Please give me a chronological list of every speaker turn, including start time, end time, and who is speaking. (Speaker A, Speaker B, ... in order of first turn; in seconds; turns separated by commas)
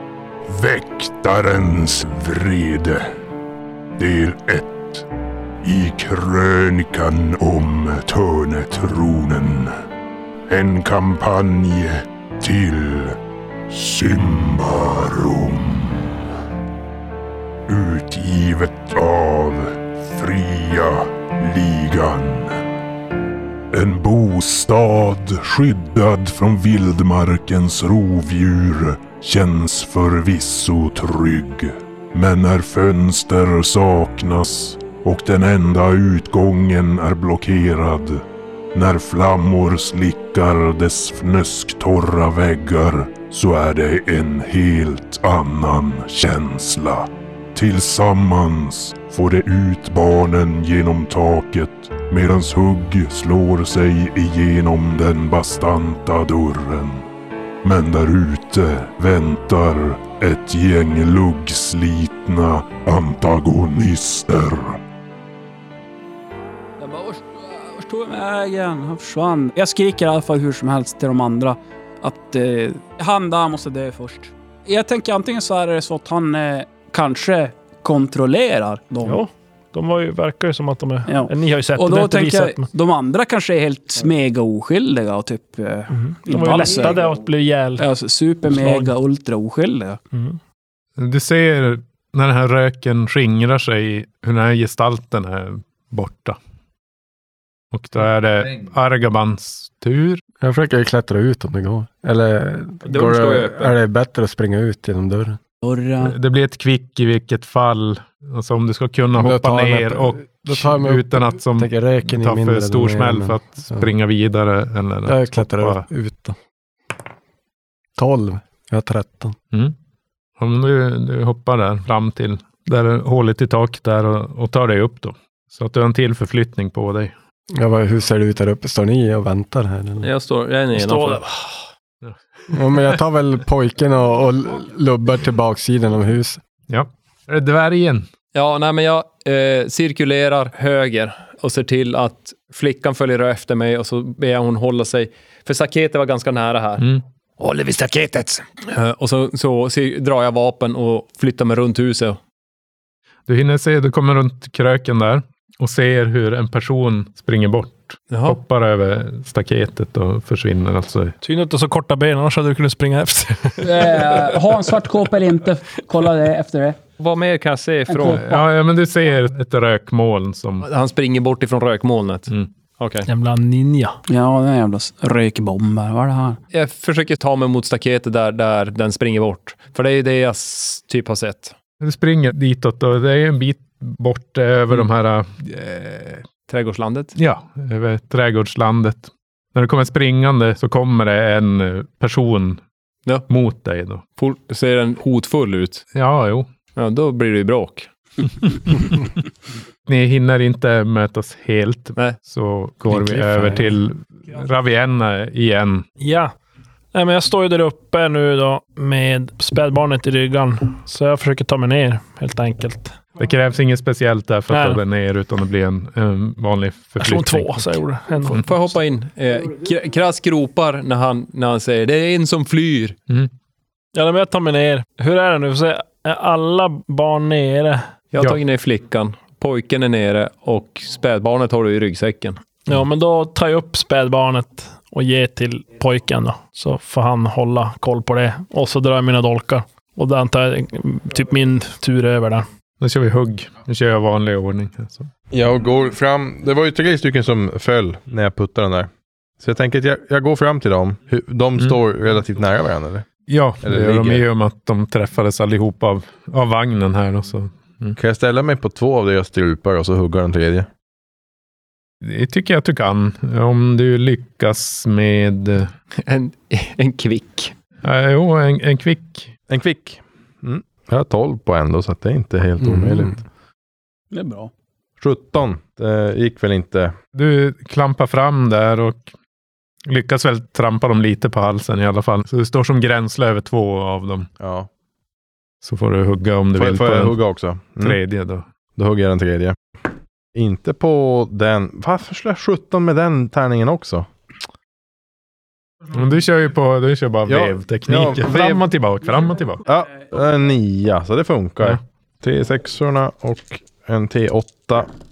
Speaker A: 0.5-3.1, Speaker A: 4.0-5.1, Speaker A: 5.6-9.7, Speaker A: 10.5-13.2, Speaker A: 13.7-16.1, Speaker A: 17.7-22.6, Speaker A: 23.7-57.1, Speaker A: 57.6-64.8, Speaker B: 66.8-79.2, Speaker C: 79.0-82.7, Speaker B: 81.1-87.0, Speaker C: 85.9-87.8, Speaker B: 87.8-90.0, Speaker C: 88.5-88.9, Speaker C: 90.1-90.4, Speaker D: 91.0-96.4, Speaker D: 97.7-100.2, Speaker E: 100.4-105.4, Speaker F: 102.8-103.7, Speaker B: 105.6-106.2, Speaker D: 106.0-115.8, Speaker E: 109.1-113.9, Speaker E: 115.0-116.3, Speaker E: 118.0-119.3, Speaker D: 120.4-127.1, Speaker E: 127.5-130.1, Speaker F: 130.0-131.2, Speaker C: 130.7-131.6, Speaker E: 132.5-136.4, Speaker D: 136.7-138.1, Speaker F: 138.3-146.9, Speaker F: 147.4-152.2, Speaker D: 153.3-161.2, Speaker F: 158.1-158.4, Speaker C: 161.2-164.4, Speaker B: 163.6-166.8, Speaker F: 167.0-168.4, Speaker B: 167.9-168.2, Speaker D: 168.1-170.7, Speaker F: 170.6-173.1, Speaker C: 173.1-174.0, Speaker B: 174.1-176.4, Speaker F: 176.5-181.5, Speaker D: 181.8-186.2, Speaker F: 186.5-187.2, Speaker D: 187.2-192.6, Speaker D: 193.3-194.0, Speaker F: 194.2-195.8, Speaker D: 195.9-196.5, Speaker F: 196.8-197.9, Speaker D: 198.7-199.1, Speaker D: 199.8-205.8, Speaker C: 202.9-203.6, Speaker F: 203.1-203.6, Speaker C: 206.0-206.3, Speaker C: 206.9-213.0, Speaker D: 213.2-218.5, Speaker C: 214.5-214.8, Speaker C: 217.0-218.4, Speaker F: 218.3-222.9, Speaker C: 223.9-227.8, Speaker F: 228.1-232.4, Speaker C: 232.7-242.4, Speaker D: 242.8-245.1, Speaker G: 245.3-253.1, Speaker D: 253.3-258.0, Speaker G: 253.6-254.2, Speaker G: 258.0-260.7, Speaker D: 262.0-265.7, Speaker F: 266.0-267.5, Speaker D: 267.8-269.3, Speaker G: 269.5-273.2, Speaker E: 272.6-273.2, Speaker B: 274.1-274.5, Speaker G: 275.0-276.9, Speaker D: 277.1-279.1, Speaker D: 279.9-284.3, Speaker G: 284.4-284.7, Speaker D: 285.6-287.2, Speaker G: 286.6-288.0, Speaker D: 287.8-288.4, Speaker G: 288.8-289.6, Speaker G: 290.3-294.1, Speaker D: 295.9-299.6, Speaker G: 297.2-298.6, Speaker G: 299.6-304.9